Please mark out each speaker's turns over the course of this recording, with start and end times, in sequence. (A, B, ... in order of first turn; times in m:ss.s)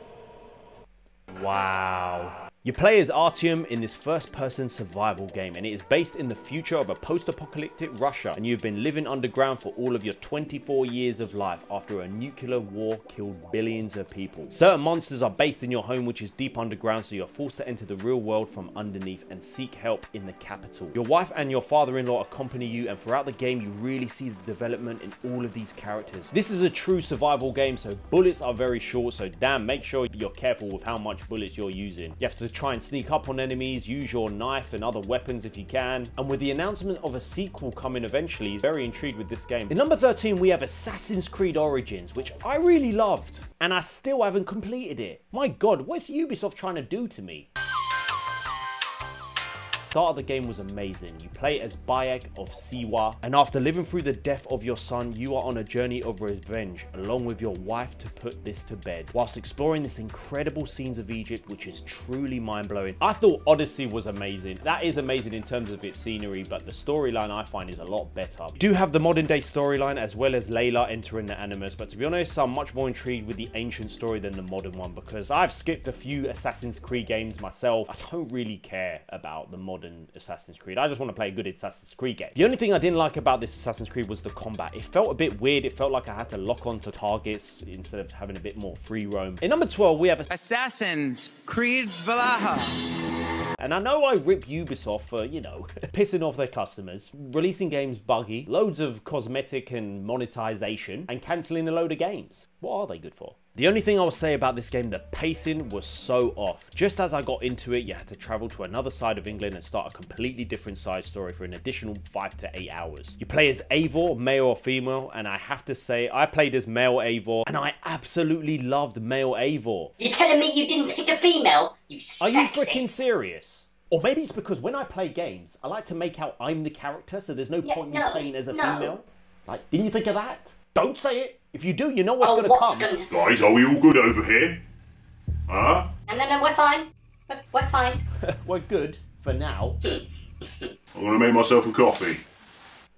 0:01.3-0:47.5 A
0:49.9-1:30.3 A
1:30.3-1:32.8 B
1:33.6-1:59.9 A
2:00.0-2:03.0 C
2:02.2-2:12.9 A
2:07.6-2:08.9 C
2:12.2-2:13.1 C
2:13.1-2:14.6 D
2:15.5-2:15.9 D
2:16.1-2:18.0 C
2:18.2-2:19.8 A
2:19.8-2:20.7 C
2:21.0-2:22.2 D